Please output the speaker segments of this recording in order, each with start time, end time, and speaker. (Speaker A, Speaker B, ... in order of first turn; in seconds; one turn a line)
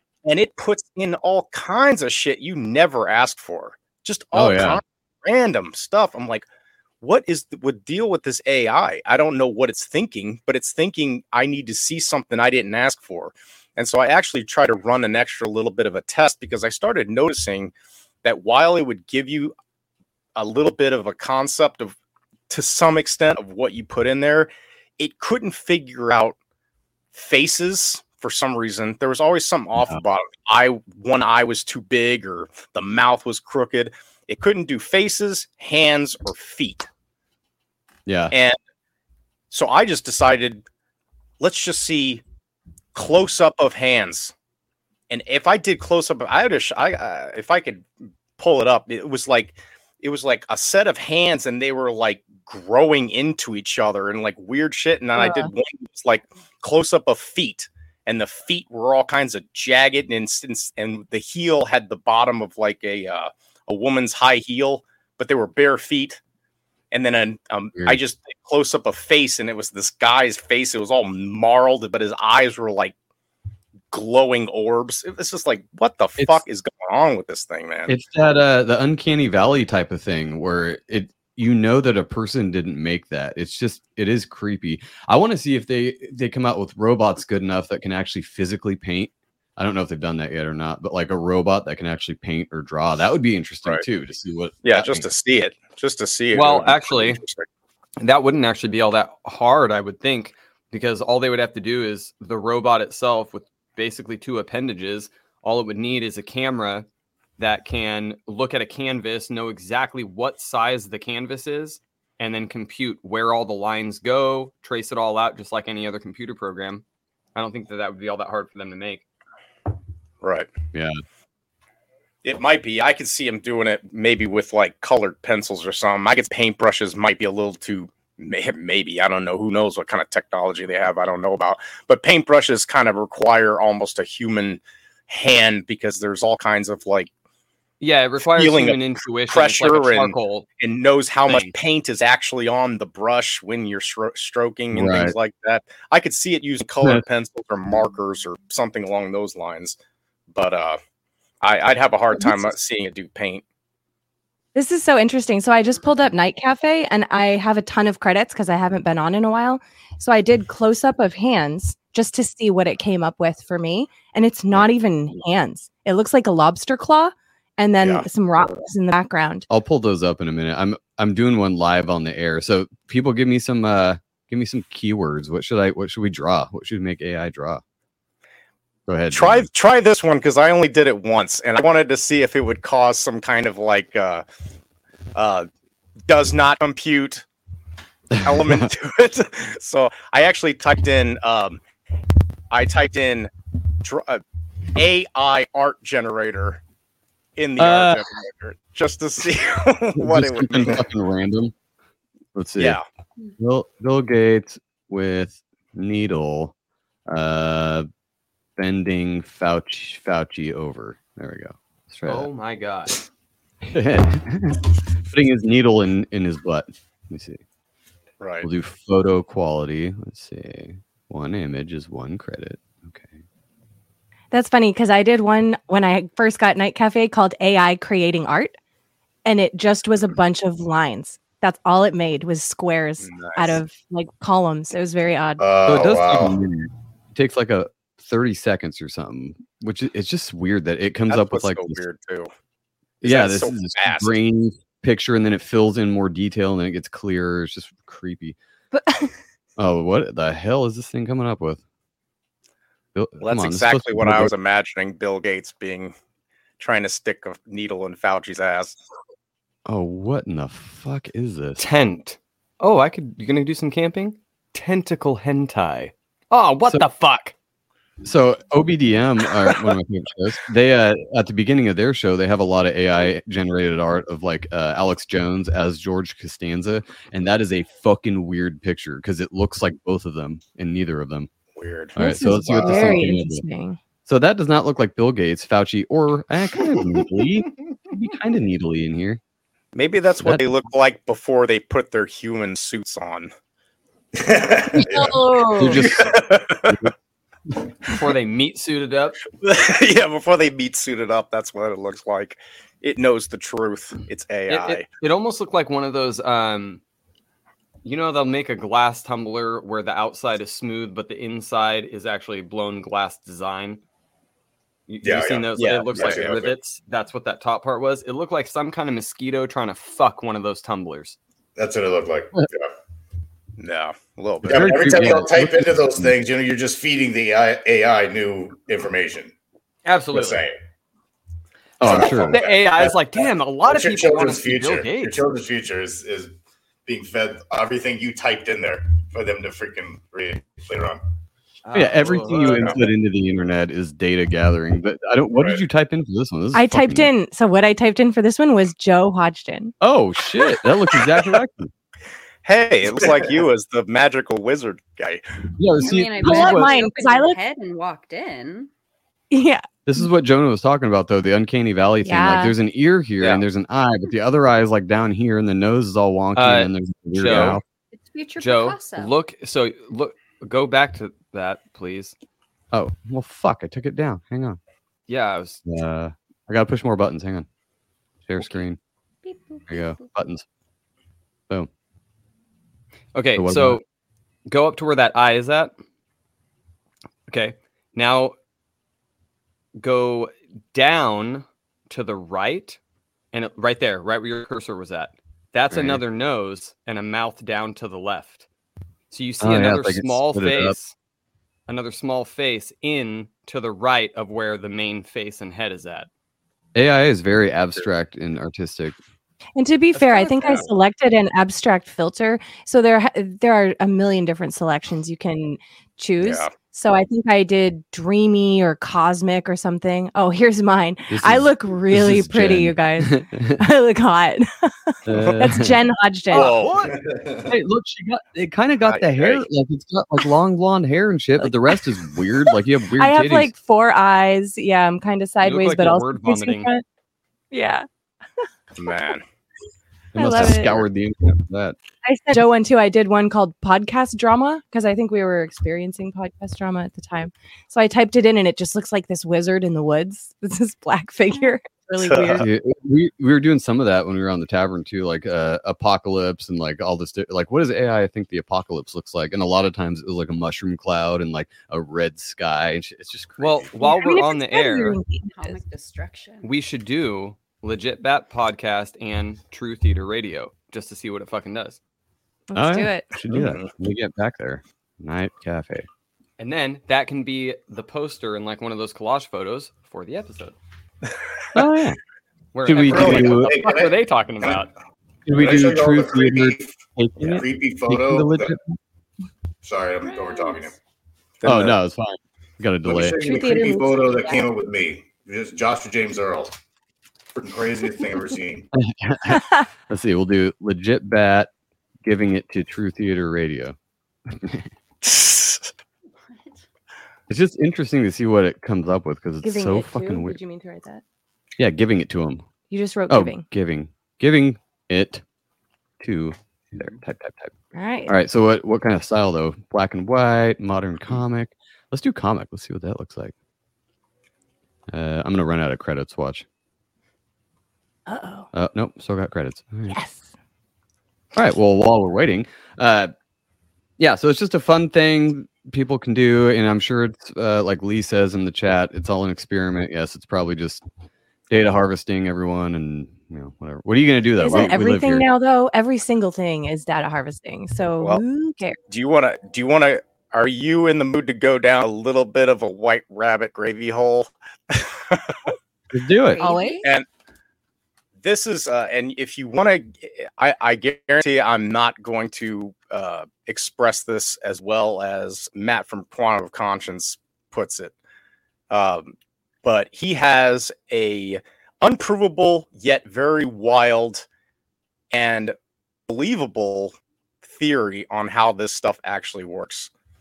Speaker A: 0.2-6.5
Speaker B: 4.3-4.8
Speaker A: 7.0-17.7
Speaker A: 18.2-19.5
Speaker A: 20.4-21.9
Speaker A: 22.5-26.4
Speaker A: 27.1-36.9
Speaker B: 38.1-38.3
Speaker A: 38.3-38.6
Speaker A: 39.5-40.6
Speaker A: 41.4-42.2
Speaker A: 42.9-44.3
Speaker A: 45.1-66.2
Speaker C: 55.2-55.5
Speaker A: 66.9-72.9
Speaker A: 73.9-78.0
Speaker B: 77.9-95.0
Speaker A: 94.6-97.5
Speaker D: 96.3-97.2
Speaker D: 98.0-106.9
Speaker D: 107.4-116.8
Speaker D: 117.3-119.0
Speaker A: 120.2-120.5
Speaker B: 120.7-121.0
Speaker A: 122.2-137.1
Speaker D: 137.8-140.4
Speaker A: 138.3-149.8
Speaker D: 141.3-141.5
Speaker B: 144.7-145.2
Speaker A: 150.3-150.8
Speaker A: 151.4-153.4
Speaker C: 154.6-169.5
Speaker A: 167.8-168.1
Speaker B: 169.5-177.6
Speaker B: 178.9-179.5
Speaker A: 179.1-184.2
Speaker A: 185.2-185.5
Speaker A: 186.1-187.2
Speaker B: 188.2-188.7
Speaker A: 188.2-191.6
Speaker A: 192.5-193.3
Speaker A: 193.8-194.2
Speaker A: 194.8-196.6
Speaker A: 197.4-200.8
Speaker B: 197.6-198.1
Speaker B: 200.0-201.5
Speaker B: 202.3-202.8
Speaker A: 202.6-202.8
Speaker B: 203.4-206.5
Speaker B: 207.1-207.9
Speaker B: 208.6-212.3
Speaker D: 212.1-213.0
Speaker B: 213.7-217.4
Speaker A: 218.2-218.5
Speaker B: 218.4-223.2
Speaker C: 224.3-228.6
Speaker C: 229.2-235.4
Speaker A: 233.0-233.6
Speaker E: 235.4-236.4
Speaker B: 235.7-241.8
Speaker A: 241.1-242.3
Speaker A: 243.0-244.2
Speaker B: 243.0-248.4
Speaker C: 248.7-249.1
Speaker B: 249.6-251.6
Speaker B: 252.9-254.3
Speaker A: 253.2-255.9
Speaker A: 256.6-258.8
Speaker B: 259.7-261.6
Speaker D: 261.6-267.3
Speaker B: 268.0-281.3
Speaker A: 281.6-283.0
Speaker C: 282.0-283.8
Speaker B: 282.0-283.4
Speaker B: 284.1-289.2
Speaker A: 289.8-293.3
Speaker E: 294.1-295.2
Speaker C: 294.8-295.8
Speaker B: 295.6-296.9
Speaker A: 295.8-296.8
Speaker D: 297.9-299.2
Speaker A: 299.4-304.9
Speaker D: 304.5-306.8
Speaker D: 307.9-313.8
Speaker D: 314.9-321.2
Speaker E: 315.0-316.6
Speaker A: 315.6-316.4
Speaker E: 321.6-322.7
Speaker A: 323.6-325.1
Speaker B: 324.4-326.1
Speaker E: 324.4-329.3
Speaker D: 329.9-330.4
Speaker E: 330.1-330.6
Speaker B: 331.8-332.4
Speaker E: 331.8-336.3
Speaker D: 331.9-335.2
Speaker E: 336.9-341.0
Speaker D: 341.7-342.7
Speaker B: 341.7-347.1
Speaker A: 342.2-342.8
Speaker C: 346.5-349.7
Speaker B: 349.8-351.7
Speaker A: 352.4-355.2
Speaker B: 352.9-353.3
Speaker B: 355.6-356.7
Speaker F: 355.8-358.7
Speaker C: 356.2-357.4
Speaker C: 359.3-359.6
Speaker B: 359.9-367.6
Speaker C: 362.0-362.6
Speaker D: 366.4-367.6
Speaker A: 367.2-367.6
Speaker F: 367.9-369.1
Speaker D: 368.4-372.1
Speaker B: 372.7-374.6
Speaker D: 375.1-375.6
Speaker B: 375.6-377.5
Speaker B: 378.3-378.8
Speaker F: 379.2-380.0
Speaker B: 379.7-380.4
Speaker D: 383.1-383.8
Speaker B: 383.4-383.8
Speaker D: 384.5-385.7
Speaker D: 387.3-388.3
Speaker D: 389.8-392.8
Speaker D: 393.3-398.5
Speaker B: 395.7-396.0
Speaker D: 399.1-400.9
Speaker B: 399.4-400.8
Speaker D: 401.7-406.1
Speaker B: 406.8-409.0
Speaker C: 409.6-426.5
Speaker A: 410.3-410.7
Speaker A: 416.2-416.5
Speaker B: 421.1-423.6
Speaker B: 425.1-425.8
Speaker A: 425.1-425.4
Speaker A: 426.3-426.9
Speaker D: 426.4-426.9
Speaker E: 426.9-427.5
Speaker B: 427.5-433.5
Speaker A: 428.8-429.4
Speaker C: 433.0-436.8
Speaker D: 435.4-436.7
Speaker C: 437.5-437.9
Speaker A: 438.8-439.2
Speaker B: 440.1-441.8
Speaker C: 440.1-440.8
Speaker C: 442.0-452.5
Speaker A: 452.0-452.5
Speaker B: 452.4-463.6
Speaker D: 463.4-465.0
Speaker C: 463.8-465.6
Speaker F: 465.3-466.5
Speaker D: 466.4-471.8
Speaker C: 472.5-473.1
Speaker B: 472.5-475.9
Speaker A: 473.3-473.7
Speaker D: 476.4-480.6
Speaker B: 481.5-482.0
Speaker D: 482.5-484.7
Speaker B: 482.6-483.5
Speaker E: 482.8-484.7
Speaker B: 485.3-488.8
Speaker E: 485.3-488.5
Speaker E: 489.6-490.7
Speaker F: 490.0-490.7
Speaker A: 491.4-491.8
Speaker B: 491.4-493.2
Speaker E: 492.8-496.5
Speaker C: 493.2-494.4
Speaker E: 497.3-498.7
Speaker B: 498.7-501.5
Speaker C: 499.3-499.7
Speaker B: 502.1-503.8
Speaker B: 504.3-504.7
Speaker A: 505.0-505.7
Speaker F: 506.3-506.6
Speaker B: 507.3-510.4
Speaker C: 509.4-511.0
Speaker B: 511.6-512.5
Speaker C: 512.7-513.5
Speaker B: 513.1-515.2
Speaker B: 516.0-517.5
Speaker C: 517.7-518.1
Speaker B: 518.1-523.3
Speaker B: 524.9-526.5
Speaker C: 528.1-528.5
Speaker B: 528.5-530.0
Speaker C: 529.9-530.3
Speaker B: 531.3-533.1
Speaker B: 534.0-540.8
Speaker B: 541.5-545.3
Speaker C: 544.4-548.8
Speaker A: 548.9-555.5
Speaker B: 555.9-556.4
Speaker F: 556.2-556.9
Speaker C: 556.4-556.8
Speaker A: 558.2-567.9
Speaker A: 568.7-574.3
Speaker A: 575.1-575.5
Speaker A: 576.1-579.9